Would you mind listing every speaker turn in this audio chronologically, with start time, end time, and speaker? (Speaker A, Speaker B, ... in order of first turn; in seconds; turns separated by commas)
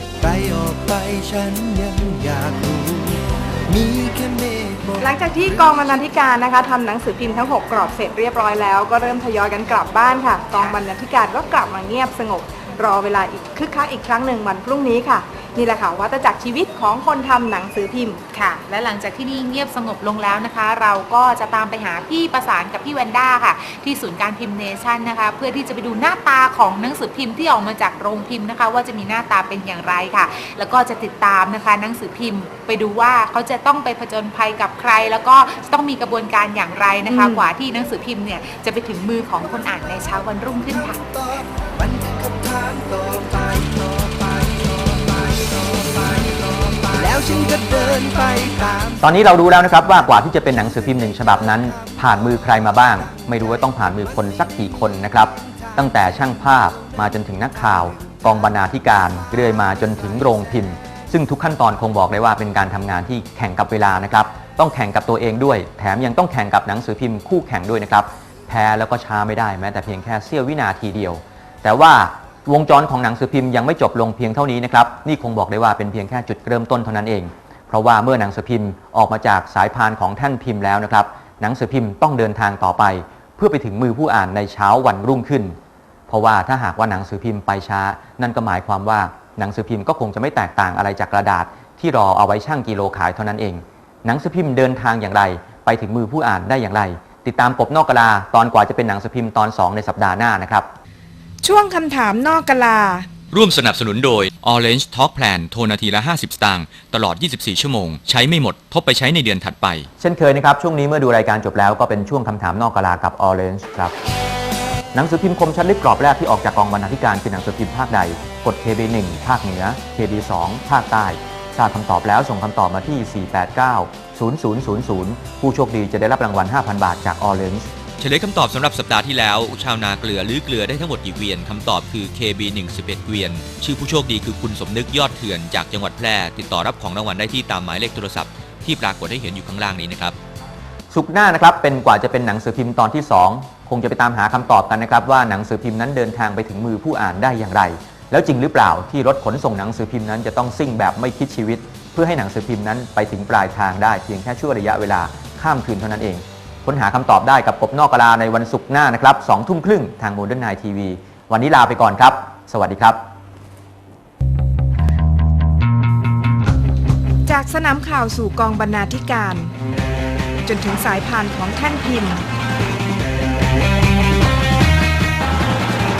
Speaker A: 0.2-6.0, Speaker B: 5.0-18.2, Speaker C: 18.3-41.0, Speaker B: 37.1-37.4, Speaker A: 40.6-49.1, Speaker D: 49.0-85.5, Speaker A: 51.5-52.0, Speaker A: 55.7-56.0, Speaker A: 57.8-58.2, Speaker D: 86.1-100.7, Speaker B: 101.4-103.1, Speaker E: 103.3-109.9, Speaker D: 110.0-113.9, Speaker D: 114.9-127.7, Speaker E: 128.0-140.2, Speaker D: 140.9-163.0, Speaker B: 167.2-169.5, Speaker B: 170.4-172.2